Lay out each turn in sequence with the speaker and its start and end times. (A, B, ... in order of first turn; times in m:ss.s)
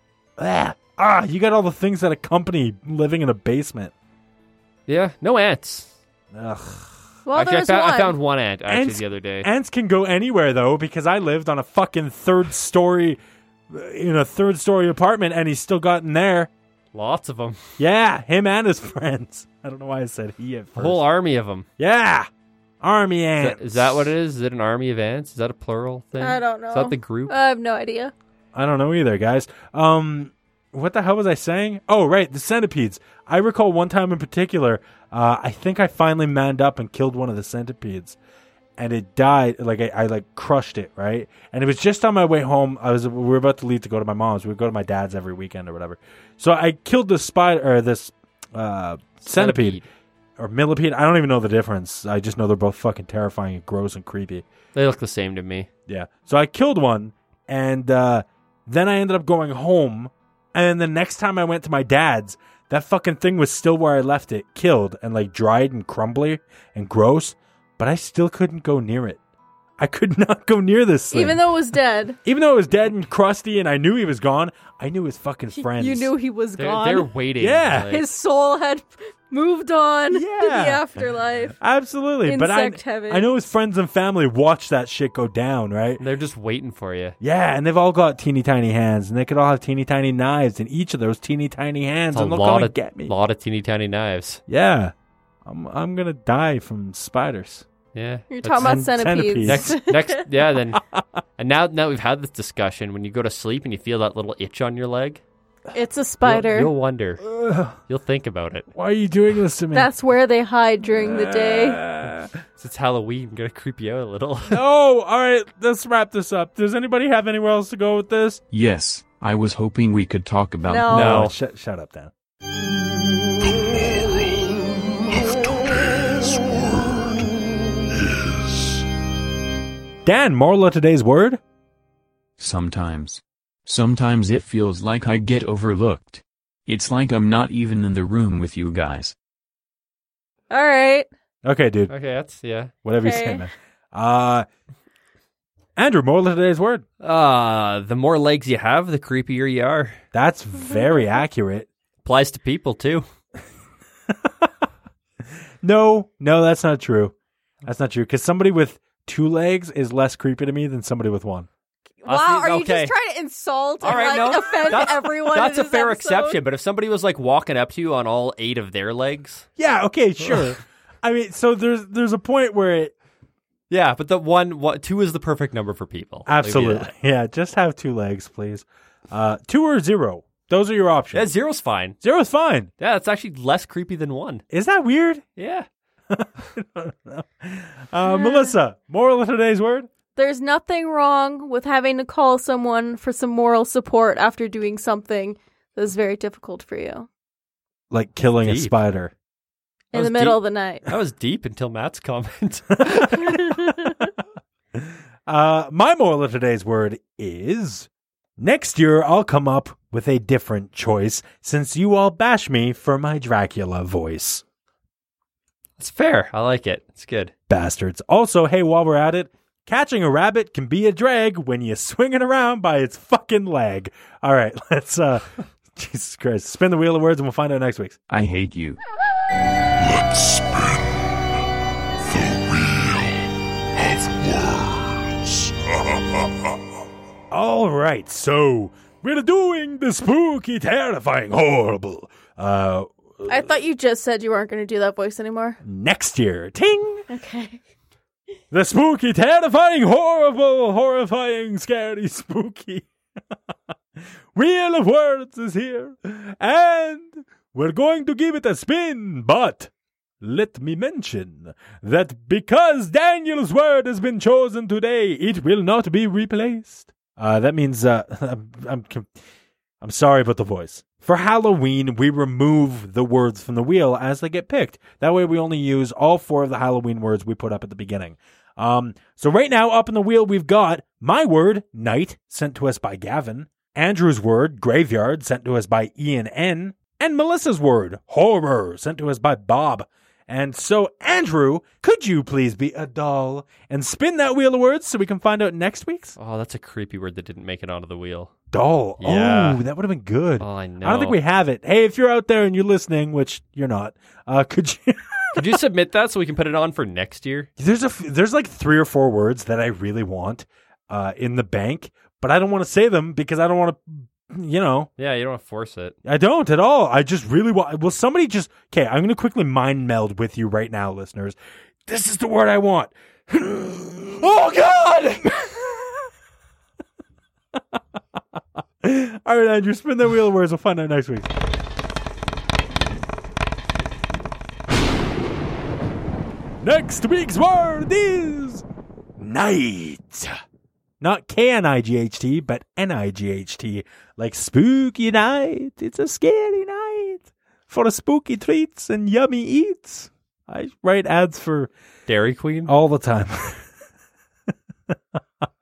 0:00.4-0:03.9 A
0:04.9-0:06.0 B
0:06.3-0:07.0 A
0:07.3-0:08.2 C
0:07.4-0:09.5 B
0:08.7-0:13.2 A
0:13.7-0:16.5 A
0:16.9-0:17.6 B
0:17.8-0:21.0 A
0:20.8-0:21.7 B
0:21.8-0:22.3 A
0:22.8-0:24.1 A
0:23.4-0:27.3 B
0:26.2-0:28.1 C
0:28.5-0:38.2 A
0:38.8-0:49.8 A
0:49.3-0:49.9 B
0:50.4-0:54.4 A
0:54.8-0:55.7 B
0:55.9-1:09.2 A
1:09.8-1:11.5 A
1:11.1-1:12.2 C
1:12.2-1:16.1 A
1:15.6-1:17.1 C
1:16.6-1:18.1 B
1:17.4-1:17.9 A
1:17.9-1:21.6 C
1:20.1-1:21.0 A
1:21.6-1:26.0 A
1:22.2-1:23.3 C
1:26.0-1:27.2 B
1:27.2-1:33.1 A
1:32.1-1:34.4 B
1:34.5-1:34.9 A
1:35.4-1:37.7 A
1:37.9-1:38.8 B
1:38.3-1:40.3 C
1:38.6-1:39.8 A
1:39.4-1:40.8 B
1:41.4-1:45.2 B
1:45.7-1:46.7 C
1:46.2-1:47.2 B
1:47.2-1:47.8 A
1:47.9-1:48.7 B
1:48.8-1:49.9 A
1:49.7-1:51.8 C
1:50.9-1:52.3 A
1:52.6-1:54.6 B
1:54.5-1:58.4 A
1:58.5-2:01.2 D
2:00.7-2:01.2 C
2:00.9-2:01.3 B
2:00.9-2:02.1 A
2:03.4-2:07.4 E
2:07.9-2:08.9 E
2:10.0-2:11.4 A
2:12.4-2:19.2 D
2:20.5-2:21.1 C
2:21.4-2:21.9 A
2:21.9-2:22.7 B
2:22.8-2:24.5 A
2:23.0-2:23.5 C
2:25.8-2:26.8 A
2:27.0-2:30.0 B
2:30.1-2:31.7 A
2:32.0-2:33.1 B
2:34.1-2:34.5 A
2:35.6-2:41.5 A
2:42.0-2:46.4 C
2:42.1-2:42.9 B
2:43.8-2:49.5 B
2:49.6-2:52.9 A
2:50.2-2:50.5 B
2:53.7-2:56.9 B
2:56.3-3:01.3 A
3:01.1-3:02.0 B
3:02.0-3:02.7 A
3:02.8-3:04.4 B
3:04.5-3:05.3 A
3:05.4-3:05.7 B
3:06.1-3:09.9 A
3:08.0-3:08.6 C
3:10.2-3:17.1 C
3:17.9-3:19.1 A
3:18.4-3:18.8 B
3:19.9-3:20.8 C
3:19.9-3:23.4 B
3:22.8-3:24.0 A
3:23.2-3:24.1 C
3:24.8-3:34.4 A
3:35.8-3:37.3 B
3:37.5-3:48.0 A
3:48.1-3:48.8 D
3:49.8-3:51.1 E
3:52.0-3:56.6 E
3:57.3-4:03.5 A
4:03.3-4:05.6 C
4:05.6-4:07.1 A
4:07.1-4:07.6 C
4:08.5-4:12.9 A
4:14.3-4:19.7 A
4:20.2-4:29.1 A
4:29.8-4:56.2 A
4:56.2-4:58.3 B
4:58.5-5:05.6 A
4:59.0-4:59.6 B
5:00.4-5:01.2 B
5:05.4-5:07.5 B
5:07.6-5:14.9 A
5:15.0-5:16.0 B
5:16.0-5:26.1 A
5:28.8-5:31.3 A
5:36.6-5:38.6 A
5:39.2-5:40.4 A
5:41.0-5:51.7 A
5:52.1-5:52.7 B
5:52.7-5:53.7 A
5:54.9-5:55.4 A